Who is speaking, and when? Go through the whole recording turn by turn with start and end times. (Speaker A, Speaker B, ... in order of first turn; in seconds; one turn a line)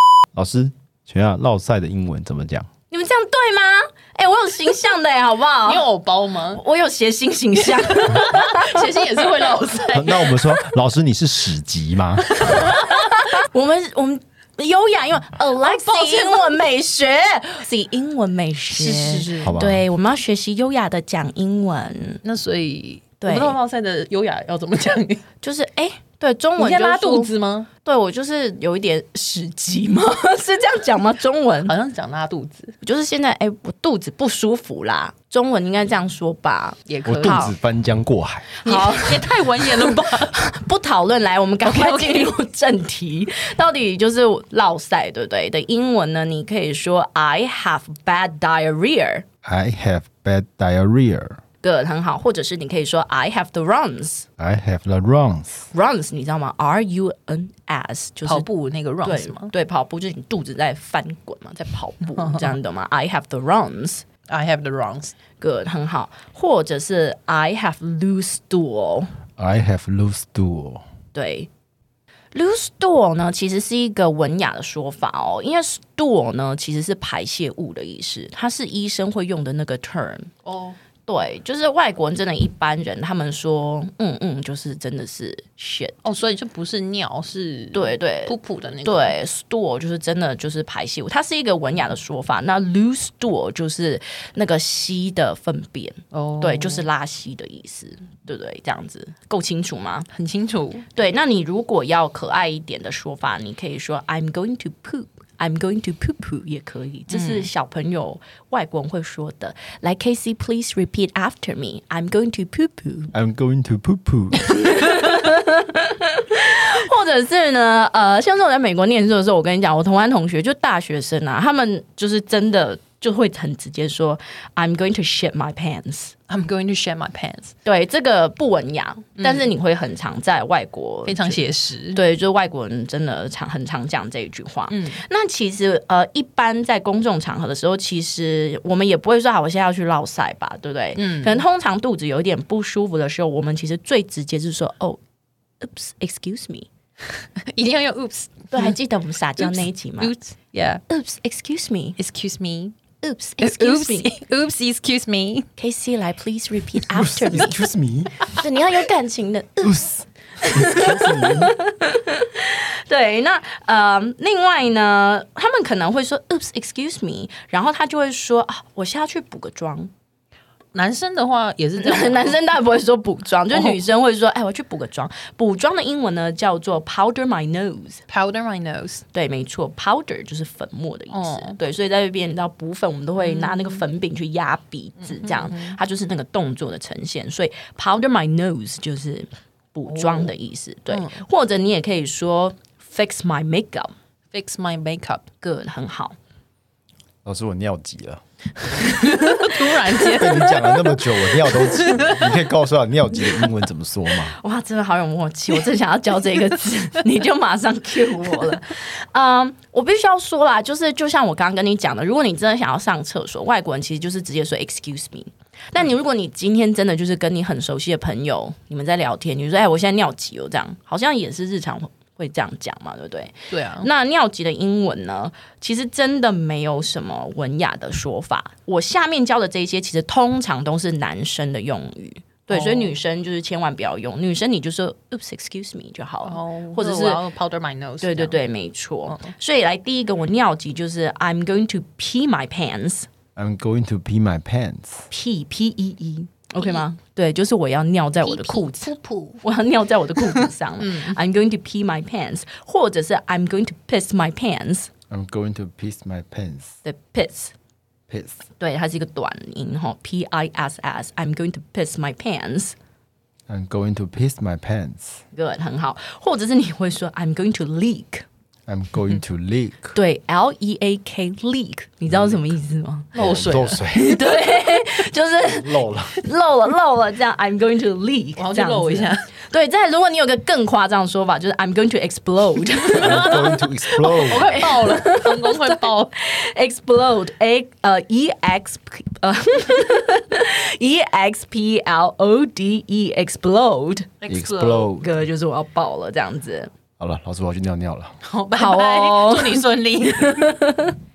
Speaker A: 0.3-2.7
Speaker B: 2.9-5.8
Speaker C: 5.7-6.6
Speaker B: 6.5-8.8
Speaker C: 7.9-10.6
Speaker A: 9.9-12.4
Speaker B: 12.6-22.2
Speaker C: 15.6-16.5
Speaker C: 18.7-19.6
Speaker A: 19.4-19.8
Speaker C: 22.2-25.2
Speaker B: 23.2-23.6
Speaker B: 25.4-27.3
Speaker C: 26.6-27.7
Speaker B: 27.8-31.7
Speaker C: 31.6-32.7
Speaker B: 32.8-36.8
Speaker C: 36.9-37.5
Speaker A: 37.0-38.5
Speaker C: 38.6-40.3
Speaker B: 38.6-49.2
Speaker C: 41.6-42.3
Speaker A: 49.4-51.4
Speaker B: 51.6-54.3
Speaker A: 54.4-55.7
Speaker B: 55.7-58.5
Speaker C: 58.2-59.5
Speaker B: 59.0-64.0
Speaker C: 62.2-62.5
Speaker C: 64.3-65.1
Speaker B: 65.4-69.1
Speaker A: 69.4-70.8
Speaker B: 71.1-71.5
Speaker B: 72.3-80.3
Speaker C: 80.4-80.8
Speaker B: 81.0-86.0
Speaker C: 86.0-89.1
Speaker B: 87.7-100.1
Speaker C: 96.1-96.8
Speaker C: 100.1-100.9
Speaker B: 100.9-113.1
Speaker C: 107.1-107.5
Speaker A: 113.1-114.7
Speaker B: 114.5-126.1
Speaker C: 126.3-127.5
Speaker B: 127.6-131.4
Speaker C: 131.1-132.0
Speaker B: 131.9-145.0
Speaker C: 134.7-135.0
Speaker C: 140.9-141.4
Speaker B: 145.6-146.7
Speaker C: 147.4-148.7
Speaker B: 148.5-150.1
Speaker C: 149.4-150.8
Speaker B: 150.9-152.0
Speaker C: 152.0-152.8
Speaker B: 153.0-154.1
Speaker C: 153.4-155.5
Speaker B: 155.6-157.6
Speaker A: 156.9-158.3
Speaker B: 158.3-169.9
Speaker A: 159.6-161.6
Speaker C: 170.7-172.4
Speaker B: 171.8-178.0
Speaker C: 173.5-173.8
Speaker C: 178.1-179.0
Speaker B: 179.1-193.9
Speaker C: 181.1-181.6
Speaker C: 183.2-183.8
Speaker C: 185.1-185.8
Speaker C: 189.9-190.3
Speaker C: 190.9-191.2
Speaker C: 194.3-195.2
Speaker B: 195.4-196.2
Speaker A: 197.2-198.2
Speaker B: 199.0-199.6
Speaker C: 199.0-202.5
Speaker A: 200.1-204.4
Speaker B: 204.2-237.2
Speaker C: 223.5-223.9
Speaker C: 232.5-233.0
Speaker C: 236.2-238.4
Speaker B: 238.0-243.1
Speaker A: 243.4-245.1
Speaker B: 245.1-254.9
Speaker C: 248.2-249.4
Speaker C: 250.3-251.2
Speaker A: 255.1-256.8
Speaker B: 256.9-257.5
Speaker A: 258.1-258.4
Speaker B: 258.6-262.8
Speaker A: 263.5-265.2
Speaker B: 265.3-268.2
Speaker A: 268.7-269.9
Speaker B: 269.9-273.1
Speaker A: 272.1-272.4
Speaker C: 273.1-273.8
Speaker A: 273.1-274.2
Speaker B: 273.9-294.1
Speaker A: 275.4-276.2
Speaker C: 278.4-279.3
Speaker A: 282.9-284.6
Speaker C: 282.9-286.1
Speaker C: 294.2-294.9
Speaker A: 294.3-295.1
Speaker B: 295.0-296.7
Speaker A: 297.0-298.1
Speaker C: 298.2-300.5
Speaker B: 298.5-301.0